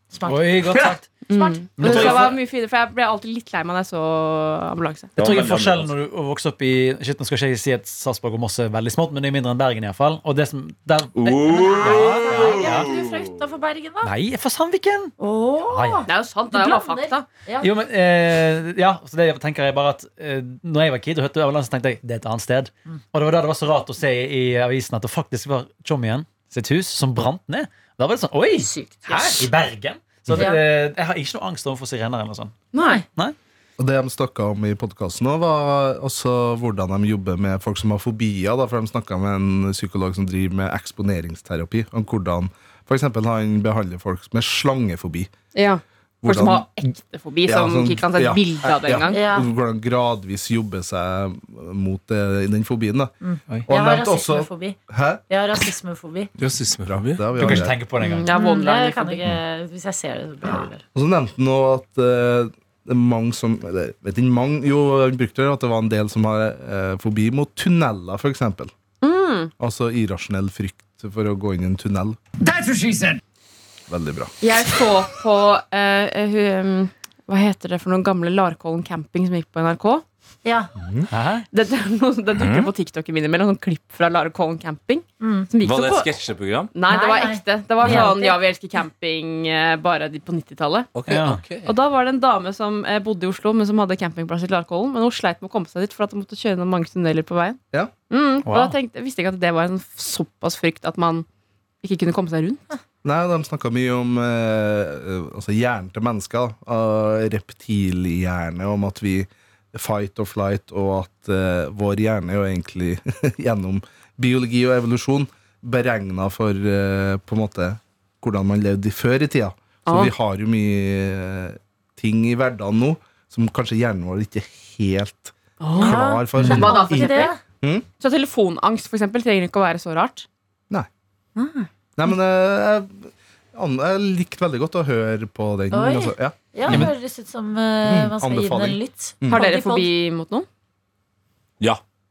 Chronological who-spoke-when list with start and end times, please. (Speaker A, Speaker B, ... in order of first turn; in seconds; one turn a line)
Speaker A: 0.1-0.6
Speaker B: 0.2-1.1
Speaker C: 0.7-0.9
Speaker D: 1.3-5.1
Speaker A: 1.3-2.0
Speaker B: 1.8-2.4
Speaker C: 1.8-2.2
Speaker C: 5.2-5.9
Speaker B: 5.2-12.9
Speaker C: 11.2-13.3
Speaker A: 11.4-14.1
Speaker B: 14.0-16.1
Speaker A: 15.2-17.7
Speaker D: 16.1-17.2
Speaker B: 17.6-32.5
Speaker A: 28.6-29.4
Speaker A: 30.3-30.6
Speaker D: 32.7-33.0
Speaker E: 33.8-45.3
Speaker D: 45.5-49.2
Speaker E: 46.2-46.6
Speaker E: 47.5-55.2
Speaker A: 49.1-49.5
Speaker A: 53.2-54.8
Speaker A: 55.3-56.3
Speaker C: 56.4-57.7
Speaker E: 56.8-57.8
Speaker B: 57.4-58.3
Speaker D: 58.0-59.2
Speaker A: 58.3-60.8
Speaker E: 60.9-68.7
Speaker D: 69.0-69.5
Speaker E: 69.6-72.2
Speaker E: 73.9-74.3
Speaker D: 74.4-80.0
Speaker A: 80.4-80.7
Speaker B: 81.1-81.5
Speaker D: 81.5-86.1
Speaker C: 82.3-82.7
Speaker A: 85.2-85.5
Speaker C: 85.6-86.7
Speaker D: 86.7-90.9
Speaker A: 86.9-88.4
Speaker C: 90.9-91.7
Speaker B: 91.1-91.4
Speaker D: 91.6-97.6
Speaker D: 98.1-101.2
Speaker B: 98.4-98.8
Speaker D: 101.8-102.7
Speaker E: 103.0-127.8
Speaker D: 119.8-120.1
Speaker D: 125.6-127.3
Speaker A: 125.8-127.4
Speaker D: 128.0-130.2
Speaker A: 131.3-131.7
Speaker E: 132.0-136.9
Speaker A: 135.7-139.9
Speaker E: 137.8-139.4
Speaker D: 139.3-140.4